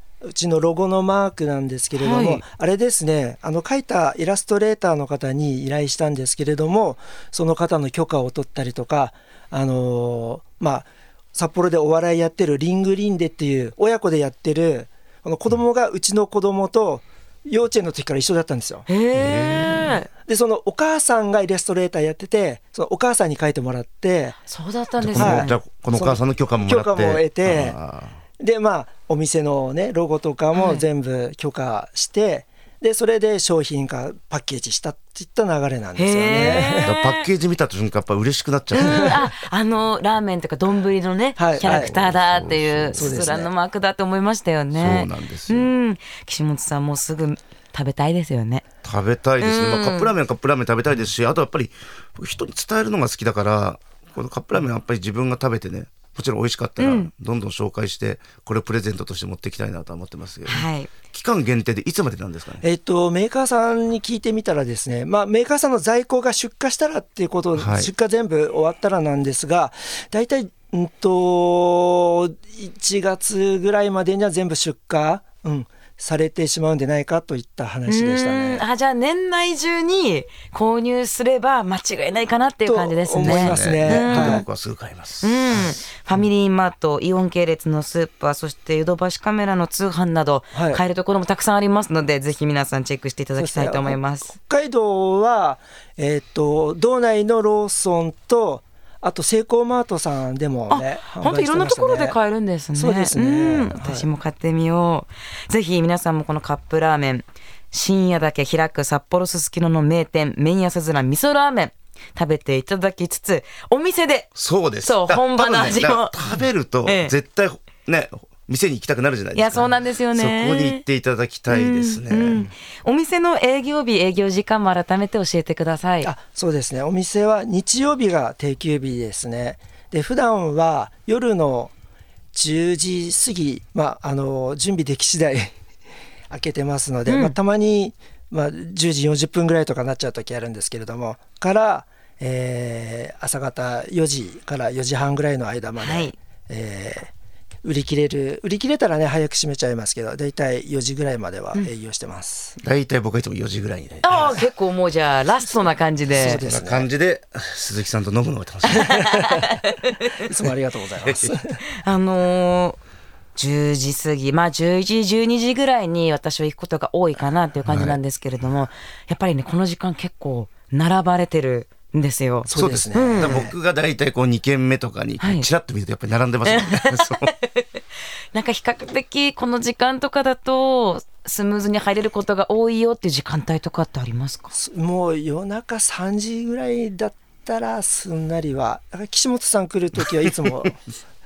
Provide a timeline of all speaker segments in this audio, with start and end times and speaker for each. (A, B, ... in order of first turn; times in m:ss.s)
0:00.2-0:18.8 A
0:02.0-0:02.4 B
0:18.9-0:20.1 B
0:19.1-0:20.0 C
0:20.2-0:24.4 A
0:24.4-0:25.6 B
0:25.0-0:28.2 C
0:25.2-0:27.8 A
0:28.4-0:36.9 A
0:30.5-0:30.8 B
0:36.0-0:37.3 B
0:36.4-0:39.2 C
0:38.7-0:48.6 B
0:41.4-0:41.9 A
0:41.6-0:43.3 C
0:42.9-0:43.5 A
0:44.7-0:45.7 C
0:48.8-1:02.6 C
0:49.4-0:50.1 B
0:56.8-0:57.1 B
1:00.4-1:00.9 B
1:02.6-1:18.6 A
1:07.5-1:07.9 C
1:17.9-1:24.4 B
1:22.6-1:24.4 A
1:23.2-1:25.8 C
1:25.2-1:34.3 B
1:30.5-1:30.8 A
1:33.4-1:42.2 A
1:40.7-1:54.3 B
1:42.7-1:44.1 A
1:54.4-2:02.5 C
1:54.8-1:56.1 B
1:56.8-1:57.1 B
1:59.3-2:00.8 B
2:01.5-2:06.1 B
2:06.0-2:11.7 A
2:12.3-2:15.5 A
2:16.3-2:27.1 A
2:17.1-2:17.4 B
2:25.8-2:26.1 B
2:27.6-2:32.6 A
2:32.6-2:34.3 C
2:34.0-2:36.4 B
2:34.1-2:34.4 A
2:36.1-2:36.9 A
2:36.1-2:39.0 C
2:38.7-2:40.2 B
2:38.8-2:39.4 A
2:40.2-2:41.6 A
2:41.0-2:41.3 C
2:41.7-2:42.8 B
2:43.3-2:53.5 B
2:47.6-2:48.0 C
2:52.5-2:53.5 A
2:52.5-2:57.3 C
2:55.2-2:55.5 B
2:56.4-2:57.6 B
2:58.3-3:04.5 B
3:04.5-3:10.8 A